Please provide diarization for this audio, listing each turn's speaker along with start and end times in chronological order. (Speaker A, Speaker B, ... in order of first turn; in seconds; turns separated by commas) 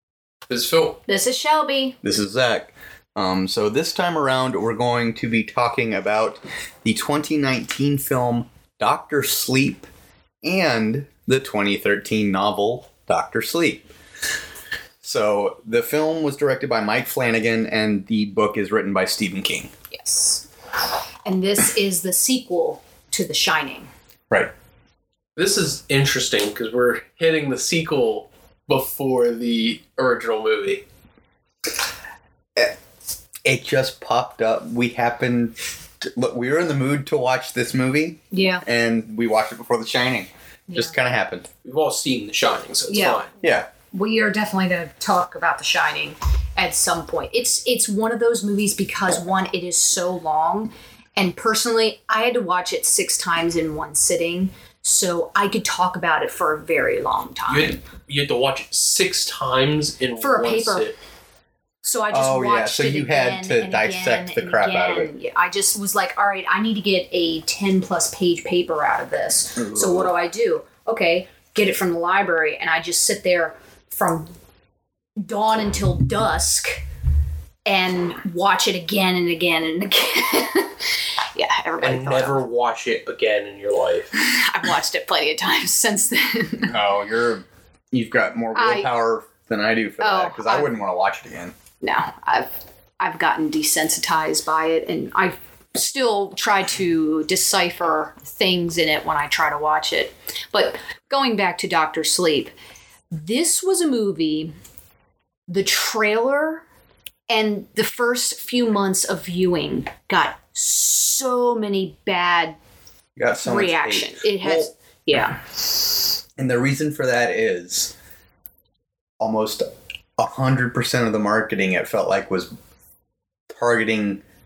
Speaker A: 0.5-1.0, Speaker B: 1.1-2.0, Speaker C: 2.0-9.9, Speaker C: 10.4-13.8, Speaker C: 15.0-19.7, Speaker B: 19.9-20.4, Speaker B: 21.2-23.9, Speaker A: 25.4-30.8, Speaker C: 33.4-41.5, Speaker B: 38.3-38.6, Speaker A: 41.6-43.3, Speaker B: 42.9-43.2, Speaker C: 43.4-43.7, Speaker B: 43.9-57.8, Speaker A: 57.5-61.0, Speaker B: 60.2-60.9, Speaker B: 61.8-74.3, Speaker C: 62.1-65.1, Speaker C: 69.6-70.1, Speaker B: 75.2-76.8, Speaker B: 77.7-82.4, Speaker A: 81.8-84.1, Speaker B: 84.1-86.8, Speaker C: 86.6-91.5, Speaker B: 88.5-88.9, Speaker B: 90.0-90.7, Speaker B: 91.8-102.5, Speaker B: 103.1-104.5, Speaker B: 105.5-106.6, Speaker B: 107.3-112.6, Speaker C: 113.2-114.7, Speaker B: 113.4-115.4, Speaker C: 116.4-117.9, Speaker C: 119.2-119.7, Speaker C: 120.2-122.5, Speaker C: 123.5-124.2